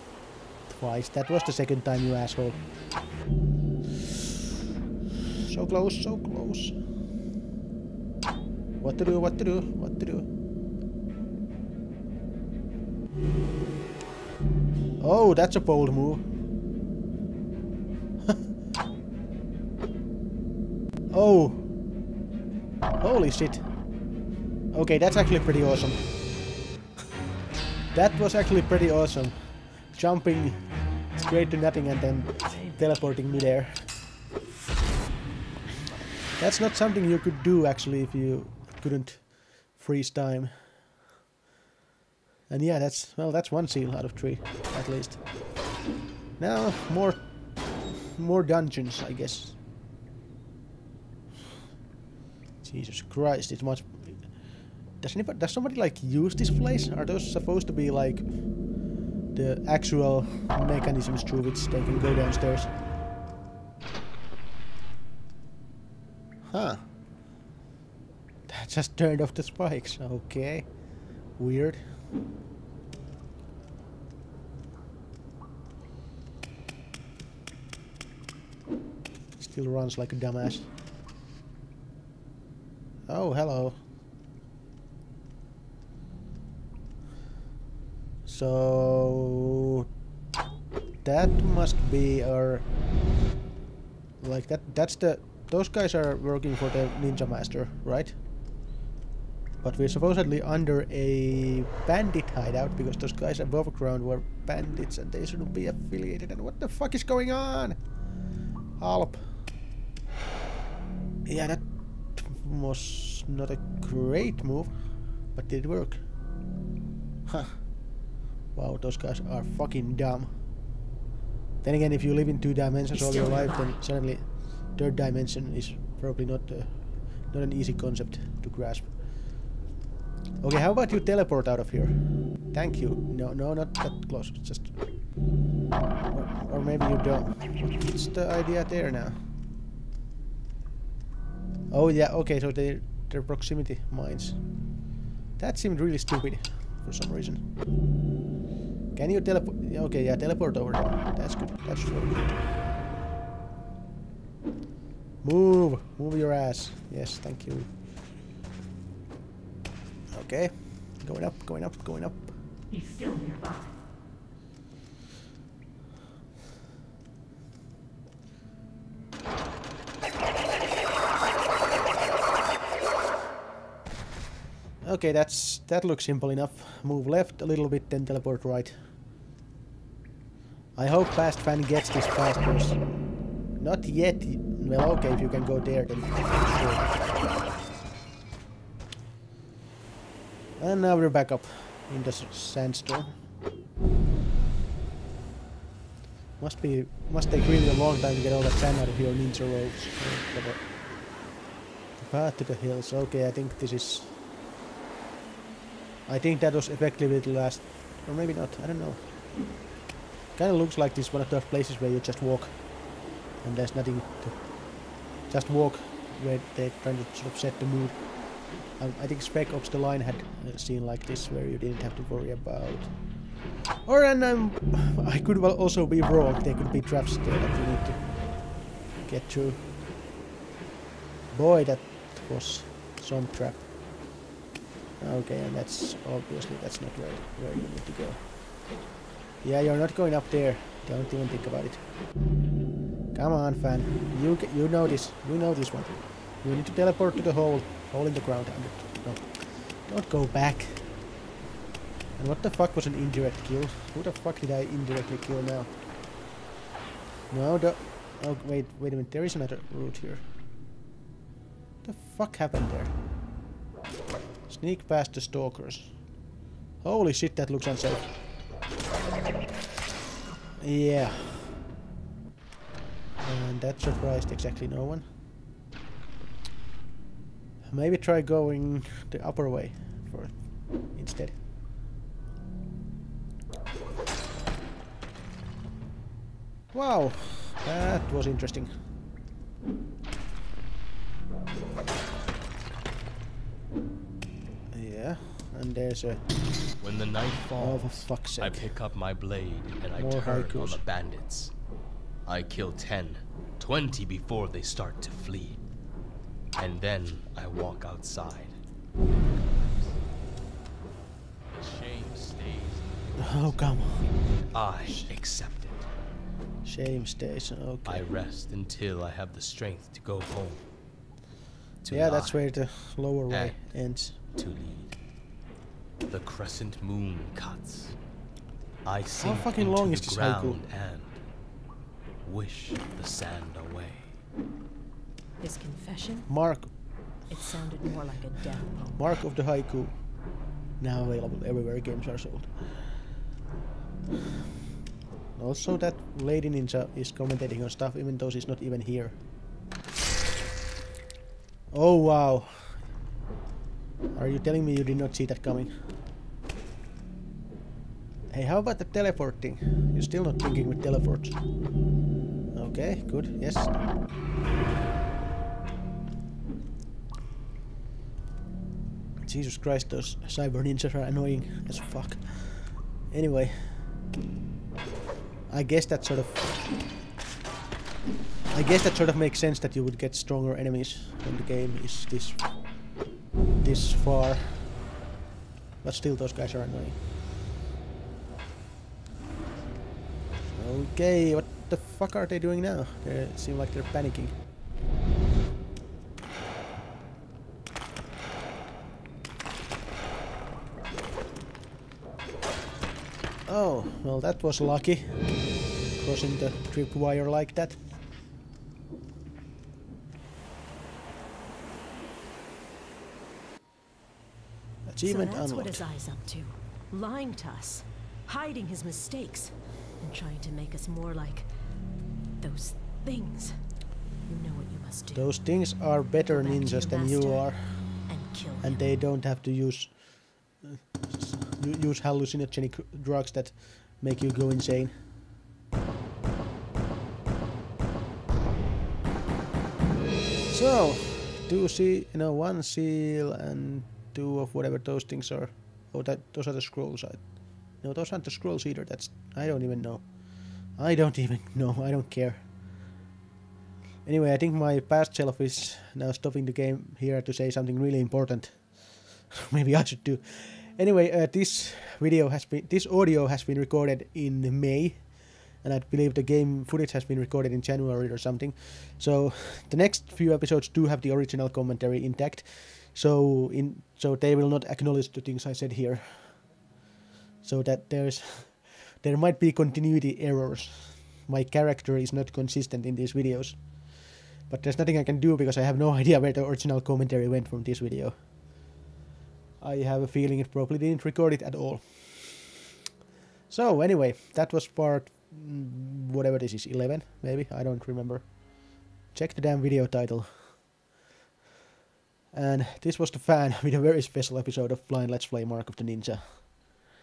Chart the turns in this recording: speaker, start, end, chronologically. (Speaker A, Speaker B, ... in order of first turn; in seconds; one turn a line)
Speaker A: 0.7-2.6
Speaker A: 5.4-6.8
Speaker A: 8.8-10.3
Speaker A: 15.0-16.2
Speaker A: 21.1-21.6
Speaker A: 23.0-23.6
Speaker A: 24.7-26.1
Speaker A: 27.9-30.6
Speaker A: 31.1-33.9
Speaker B: 32.4-33.3
Speaker A: 36.4-40.7
Speaker A: 42.5-45.2
Speaker A: 46.4-47.2
Speaker A: 48.1-49.5
Speaker A: 52.6-54.4
Speaker A: 55.0-58.5
Speaker A: 59.3-62.7
Speaker A: 66.5-66.8
Speaker A: 68.5-70.8
Speaker A: 71.3-71.8
Speaker A: 79.4-80.7
Speaker A: 83.1-83.8
Speaker A: 88.2-89.8
Speaker A: 91.0-92.7
Speaker A: 94.2-98.2
Speaker A: 99.6-107.8
Speaker A: 108.8-109.3
Speaker A: 111.2-111.6
Speaker A: 112.2-114.7
Speaker A: 115.3-116.0
Speaker A: 117.3-117.6
Speaker A: 118.5-120.3
Speaker A: 121.6-128.9
Speaker C: 123.0-123.7
Speaker A: 130.4-132.0
Speaker A: 132.5-134.7
Speaker A: 136.1-139.2
Speaker A: 141.7-144.4
Speaker A: 145.4-147.4
Speaker A: 148.9-152.2
Speaker A: 155.2-157.7
Speaker A: 160.1-162.3
Speaker C: 162.7-163.7
Speaker A: 174.8-178.8
Speaker A: 180.8-182.8
Speaker A: 183.6-187.1
Speaker A: 190.6-193.1
Speaker A: 196.4-200.6
Speaker A: 202.0-204.2
Speaker A: 206.1-209.0
Speaker A: 210.3-212.6
Speaker A: 213.4-214.4
Speaker A: 215.3-218.0
Speaker A: 218.8-222.9
Speaker A: 223.8-228.1
Speaker A: 229.1-229.6
Speaker A: 231.3-233.7
Speaker A: 235.0-238.2
Speaker A: 239.4-241.8
Speaker A: 243.1-250.9
Speaker A: 252.2-255.7
Speaker A: 257.3-260.2
Speaker A: 261.8-262.9
Speaker A: 264.5-266.0
Speaker A: 266.8-268.1
Speaker A: 270.6-271.6
Speaker A: 273.2-275.0
Speaker A: 277.7-281.4
Speaker A: 286.7-288.7
Speaker A: 294.7-296.2
Speaker B: 296.8-301.5
Speaker A: 297.6-298.7
Speaker A: 300.0-300.8
Speaker B: 302.2-305.6
Speaker B: 306.6-310.0
Speaker B: 311.5-315.9
Speaker A: 313.2-314.1
Speaker A: 314.8-315.1
Speaker A: 316.6-318.0
Speaker B: 317.8-320.6
Speaker B: 321.8-322.4
Speaker A: 321.9-324.2
Speaker B: 323.3-323.6
Speaker B: 324.2-324.9
Speaker B: 326.1-328.0
Speaker B: 328.8-331.2
Speaker A: 329.2-330.6
Speaker B: 332.2-334.2
Speaker C: 335.4-336.3
Speaker A: 336.3-336.7
Speaker C: 337.3-339.0
Speaker A: 338.9-339.9
Speaker A: 340.8-342.5
Speaker A: 345.4-349.1
Speaker A: 351.7-352.8
Speaker A: 354.1-355.7
Speaker A: 358.3-361.4
Speaker A: 362.5-363.8
Speaker A: 369.2-373.8
Speaker A: 375.5-376.5
Speaker A: 378.5-382.4
Speaker A: 383.6-384.6
Speaker A: 385.8-387.0
Speaker A: 390.5-394.3
Speaker A: 403.5-405.2
Speaker A: 406.0-407.8
Speaker A: 414.9-415.8
Speaker C: 415.0-421.5
Speaker C: 422.4-423.6
Speaker C: 424.3-425.3
Speaker A: 425.1-427.6
Speaker C: 426.2-427.5
Speaker C: 428.1-428.9
Speaker A: 428.6-434.9
Speaker A: 440.5-450.1
Speaker A: 450.7-452.4
Speaker A: 454.0-458.8
Speaker A: 459.3-476.4
Speaker A: 477.4-484.0
Speaker A: 484.5-488.1
Speaker A: 489.6-492.5
Speaker A: 493.5-498.4
Speaker A: 499.1-500.6
Speaker A: 502.3-506.5